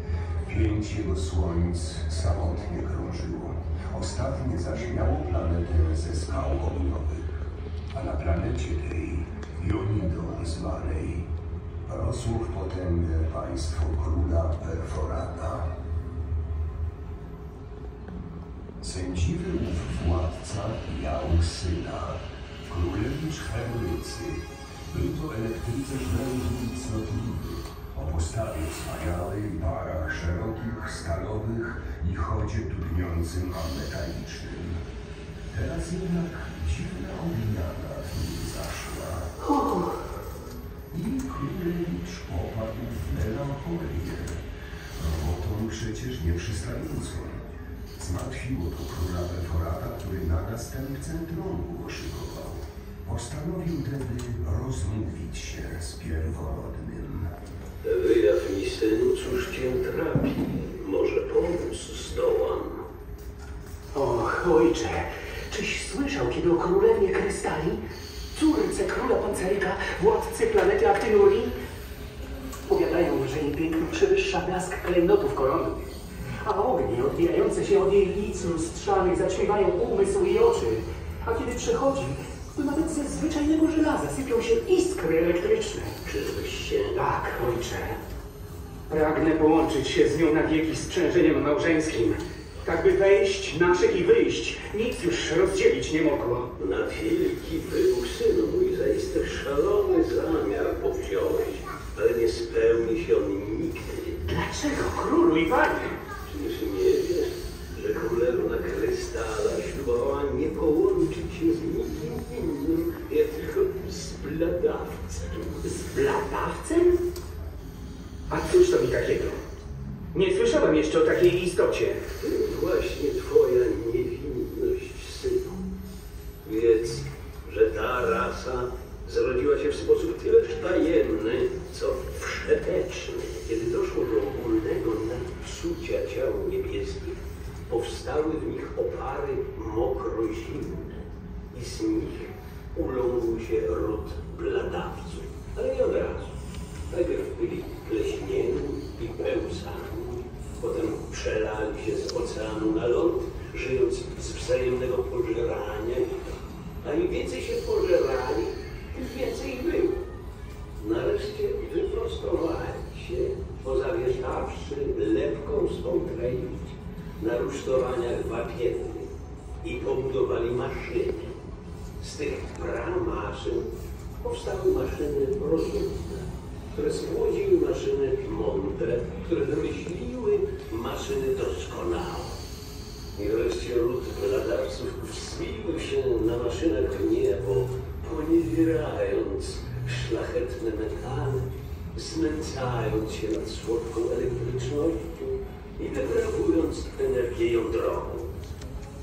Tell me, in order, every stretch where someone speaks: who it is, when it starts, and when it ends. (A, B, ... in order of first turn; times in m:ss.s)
0:00.4-0:07.3 A
0:07.9-0:11.3 A
0:11.8-0:15.7 A
0:18.8-0:34.8 A
0:35.5-0:39.5 A
0:39.6-0:39.9 B
0:40.9-0:44.4 A
0:45.0-0:47.4 A
0:48.0-0:57.3 A
0:57.8-1:02.8 C
1:03.9-1:07.8 B
1:08.3-1:11.5 B
1:12.7-1:15.9 B
1:16.4-1:26.0 B
1:26.0-1:27.0 C
1:26.9-1:28.0 B
1:28.9-1:36.5 B
1:36.6-1:44.2 C
1:44.3-1:46.0 B
1:46.3-1:55.8 C
1:55.7-1:57.0 B
1:58.3-1:59.4 B
2:00.1-2:02.0 B
2:02.2-2:05.6 C
2:06.4-2:26.3 C
2:26.9-2:40.0 C
2:40.8-2:49.1 C
2:49.6-2:51.4 C
2:52.0-3:02.4 C
3:03.1-3:18.3 C